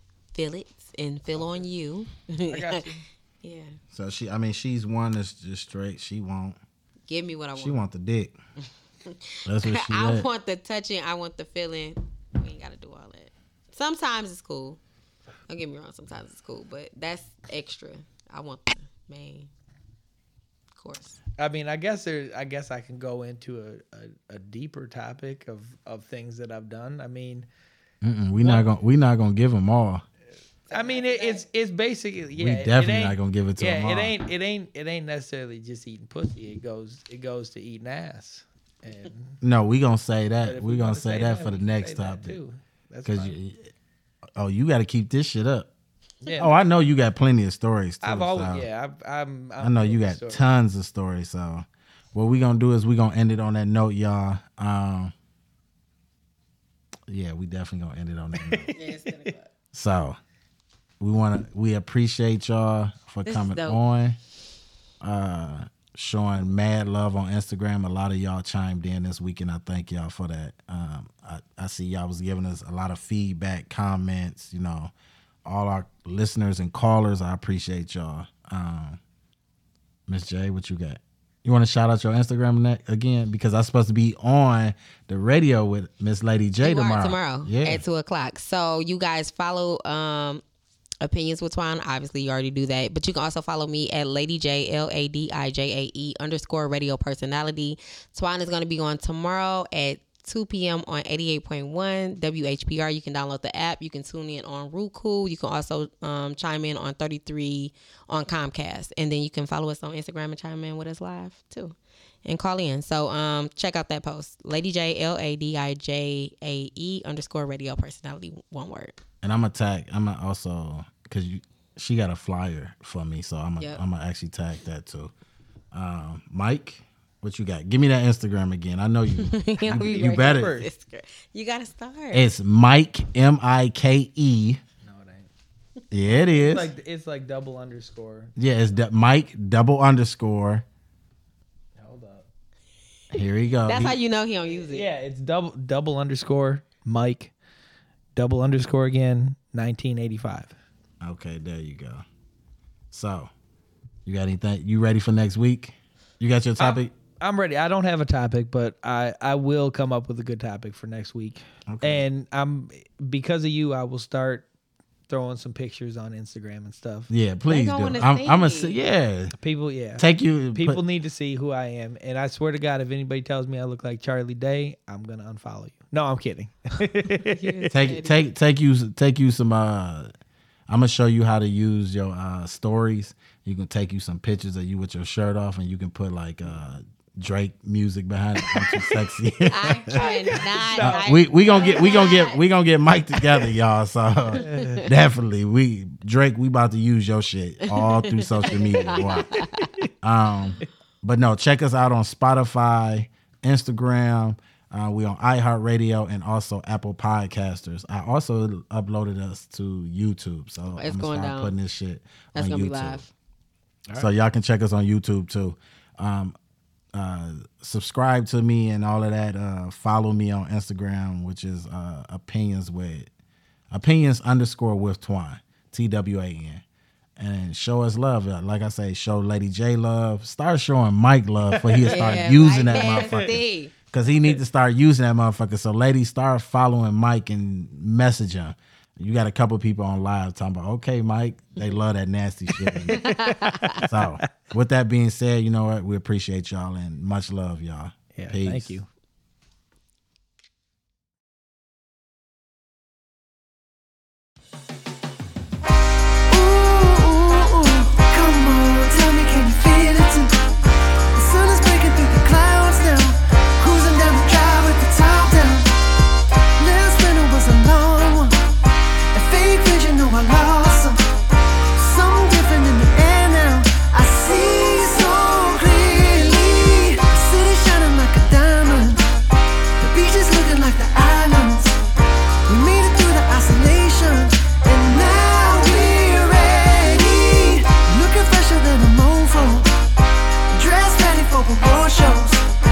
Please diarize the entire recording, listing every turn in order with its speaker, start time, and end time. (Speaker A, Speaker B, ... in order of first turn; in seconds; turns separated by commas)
Speaker A: 0.3-2.8, Speaker B: 1.4-1.6, Speaker B: 2.5-3.0, Speaker A: 3.4-3.8, Speaker C: 3.9-6.6, Speaker A: 7.1-7.8, Speaker C: 7.5-8.3, Speaker A: 9.1-14.8, Speaker C: 9.4-10.3, Speaker A: 15.5-19.5, Speaker A: 20.7-21.2, Speaker B: 21.4-27.5, Speaker C: 28.0-30.0, Speaker B: 28.4-28.7, Speaker A: 30.7-31.4, Speaker B: 30.7-39.4, Speaker C: 32.4-34.1, Speaker C: 39.4-42.4, Speaker B: 40.4-43.4, Speaker C: 43.0-43.7, Speaker C: 44.4-45.7, Speaker B: 46.2-46.6, Speaker C: 46.3-48.7, Speaker B: 48.0-50.5, Speaker C: 49.6-55.1, Speaker C: 57.1-58.7, Speaker B: 58.4-58.8, Speaker A: 58.7-59.5, Speaker C: 59.7-60.2, Speaker C: 61.0-64.2, Speaker A: 63.2-63.8, Speaker C: 65.0-74.9, Speaker C: 75.4-79.0, Speaker C: 80.1-87.8, Speaker A: 86.6-90.4, Speaker A: 91.0-119.0, Speaker C: 119.2-125.1, Speaker C: 125.7-130.6, Speaker A: 129.2-132.2, Speaker B: 129.6-130.7, Speaker C: 132.1-134.6, Speaker B: 134.8-135.3, Speaker C: 135.9-136.7, Speaker B: 136.1-138.3, Speaker C: 138.3-140.6, Speaker B: 141.8-142.2, Speaker C: 143.1-144.0, Speaker A: 143.7-144.9, Speaker B: 144.4-147.3, Speaker B: 148.2-150.5, Speaker C: 151.0-152.0, Speaker C: 152.9-153.3, Speaker C: 154.1-156.9, Speaker B: 156.6-164.4, Speaker C: 161.7-162.1, Speaker B: 165.1-167.1, Speaker C: 167.1-169.3, Speaker A: 167.5-168.8, Speaker B: 169.4-177.7, Speaker C: 170.0-170.8, Speaker A: 177.2-178.2, Speaker C: 177.7-180.1, Speaker C: 180.7-190.1, Speaker A: 189.5-192.4, Speaker B: 189.9-192.2, Speaker C: 190.8-199.4, Speaker B: 194.3-194.9, Speaker A: 194.4-194.8, Speaker A: 197.7-199.7, Speaker B: 198.5-199.9, Speaker C: 200.0-213.0, Speaker A: 210.8-211.5, Speaker A: 212.3-213.1, Speaker C: 213.9-216.3, Speaker C: 216.9-223.1, Speaker C: 223.7-226.6, Speaker C: 227.2-243.2, Speaker B: 231.5-233.3, Speaker A: 231.8-233.7, Speaker B: 234.1-234.4, Speaker B: 242.6-244.0, Speaker A: 242.9-243.8, Speaker C: 243.8-248.8, Speaker B: 248.1-248.8, Speaker D: 256.3-260.4, Speaker D: 261.1-265.7, Speaker D: 266.6-268.4, Speaker D: 269.1-271.0, Speaker D: 271.8-279.0, Speaker D: 279.8-281.8, Speaker D: 282.5-289.7, Speaker D: 290.5-292.4